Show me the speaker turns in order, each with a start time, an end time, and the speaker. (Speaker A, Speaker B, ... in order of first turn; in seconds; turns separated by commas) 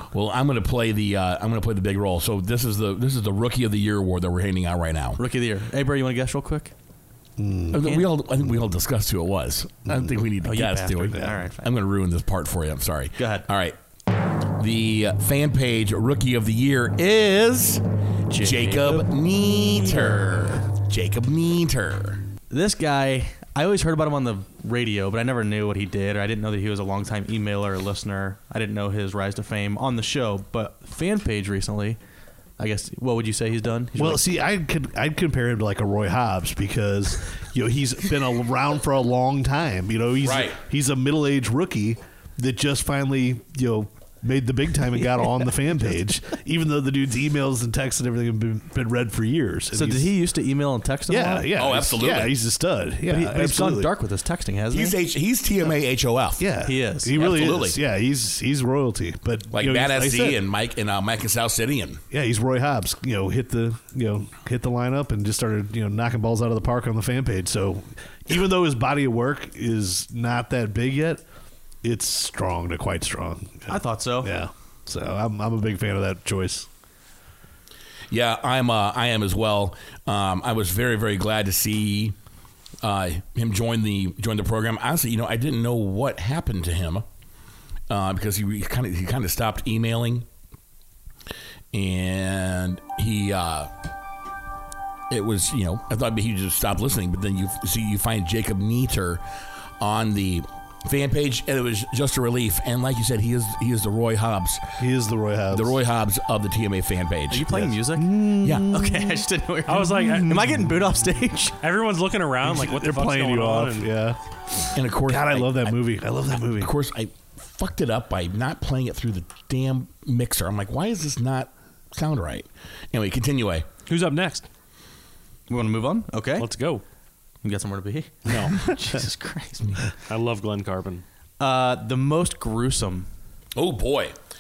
Speaker A: 0.1-5.2, Speaker B: 5.2-6.7, Speaker C: 7.4-7.9, Speaker A: 7.7-13.8, Speaker C: 9.9-10.2, Speaker B: 10.4-11.7, Speaker B: 13.2-13.5, Speaker A: 14.6-17.8, Speaker B: 18.3-19.1, Speaker A: 18.4-22.2, Speaker B: 19.9-20.5, Speaker B: 22.5-32.0, Speaker B: 32.6-34.2, Speaker C: 34.0-50.1, Speaker A: 40.2-40.6, Speaker B: 49.7-51.5, Speaker C: 51.1-53.9, Speaker A: 51.5-52.4, Speaker B: 53.1-55.0, Speaker A: 54.7-56.5, Speaker C: 56.4-60.4, Speaker B: 56.6-57.2, Speaker A: 57.1-57.8, Speaker A: 59.5-62.0, Speaker C: 62.1-71.2, Speaker C: 71.8-76.7, Speaker B: 73.7-74.3, Speaker A: 78.1-82.2, Speaker A: 82.8-87.0, Speaker A: 87.9-90.3, Speaker A: 91.7-93.7, Speaker A: 95.1-99.2, Speaker A: 99.8-104.7, Speaker C: 104.8-105.8, Speaker A: 105.5-107.5, Speaker B: 107.3-111.6, Speaker C: 107.5-109.3, Speaker A: 108.4-108.7, Speaker D: 109.7-110.5, Speaker C: 110.0-110.6, Speaker D: 111.6-113.9, Speaker C: 112.4-114.2, Speaker A: 114.7-115.8, Speaker C: 115.0-116.7, Speaker A: 116.5-123.7, Speaker D: 123.9-124.5, Speaker B: 125.5-126.5, Speaker D: 126.4-126.8, Speaker B: 127.4-129.9, Speaker D: 128.3-128.6, Speaker D: 130.1-131.0, Speaker B: 131.4-133.1, Speaker A: 133.6-134.2